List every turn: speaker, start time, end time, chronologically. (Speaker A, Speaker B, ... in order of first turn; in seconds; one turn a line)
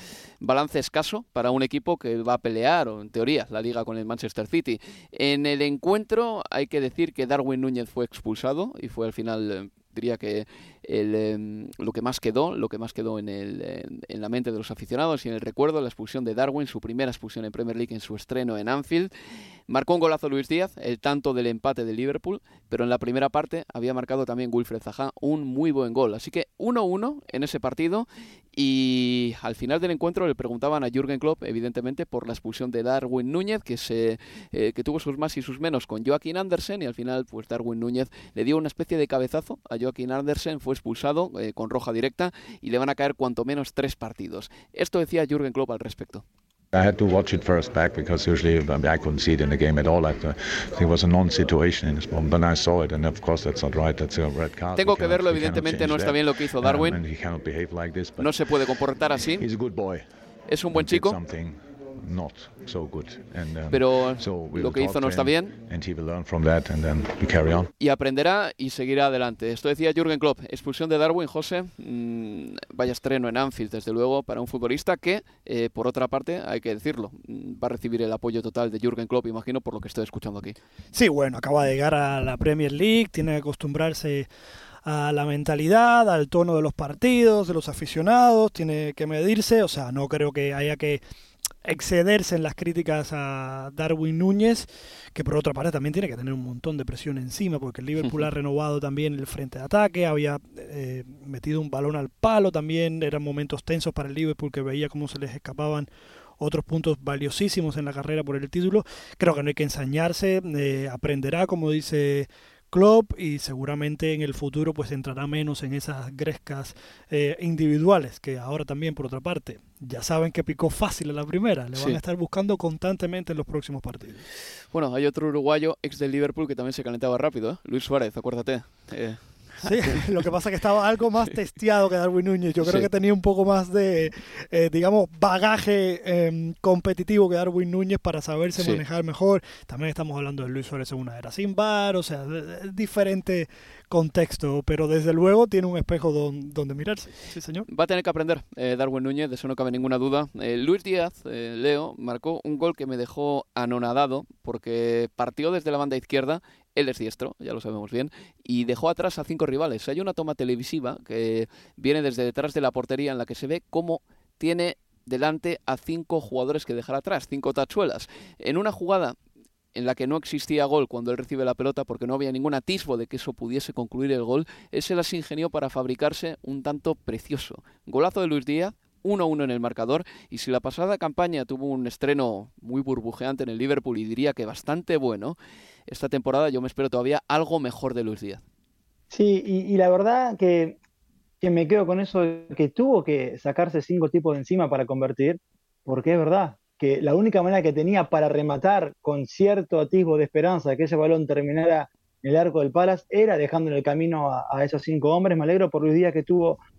Speaker A: 0.4-19.1
Speaker A: 19.7-46.2
Speaker B: 46.7-58.3
Speaker A: 54.7-57.0
Speaker A: 58.2-59.4
Speaker B: 59.4-60.0
Speaker A: 60.5-61.2
Speaker B: 60.7-67.7
Speaker A: 63.7-65.5
Speaker A: 67.8-80.5
Speaker C: 80.9-84.3
Speaker C: 84.8-91.0
Speaker C: 91.6-124.2
Speaker A: 121.7-122.0
Speaker A: 124.7-129.9
Speaker C: 129.6-147.7
Speaker A: 132.6-132.9
Speaker A: 138.6-138.8
Speaker A: 147.7-169.1
Speaker A: 169.7-185.3
Speaker A: 185.9-188.4
Speaker D: 189.1-190.8
Speaker D: 191.4-206.6